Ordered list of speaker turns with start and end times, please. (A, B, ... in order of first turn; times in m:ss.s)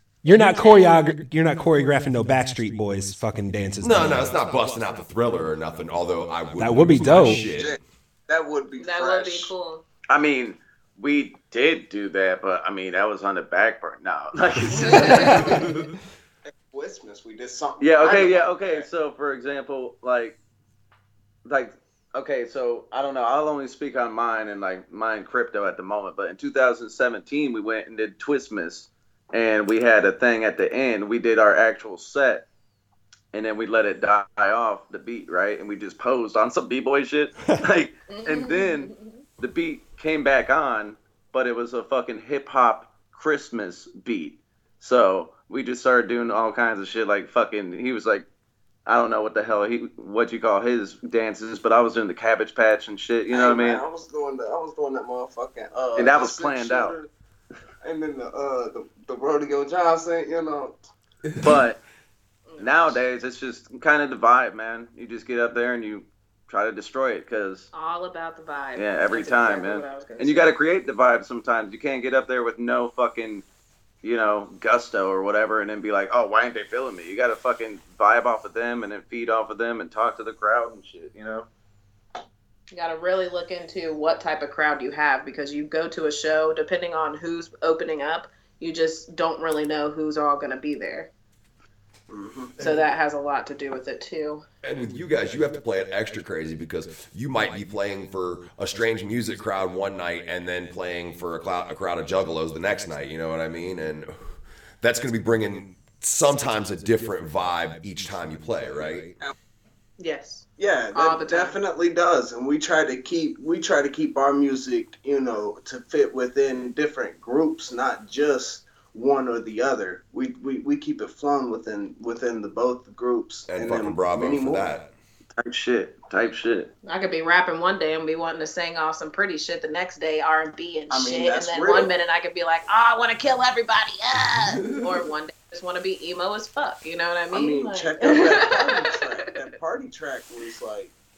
0:00.2-0:04.3 A
0:00.3-0:00.9 B
0:03.8-0:07.8 C
0:06.6-0:07.5 A
0:07.5-0:09.5 D
0:08.8-0:09.8 B
0:10.1-0:15.7 E
0:14.8-0:15.6 B
0:16.5-0:18.9 D
0:17.8-0:20.4 E
0:21.5-0:32.5 E
0:33.3-0:48.3 E
0:38.1-0:39.1 B
0:48.9-0:53.8 E
0:53.3-0:57.1 D
0:56.0-0:57.0 E
0:57.8-1:00.8 D
1:01.4-1:01.8 E
1:02.5-1:02.8 B
1:02.6-1:07.7 E
1:07.7-1:10.5 B
1:08.8-1:13.4 E
1:14.0-1:21.5 E
1:22.7-1:31.1 B
1:32.1-1:32.6 D
1:32.6-1:34.4 B
1:34.6-1:44.3 C
1:44.8-1:49.1 C
1:50.0-1:51.6 B
1:50.6-2:04.7 D
2:03.5-2:04.9 C
2:05.4-2:06.7 E
2:06.9-2:19.2 B
2:10.9-2:11.9 D
2:14.4-2:15.0 C
2:17.3-2:20.9 D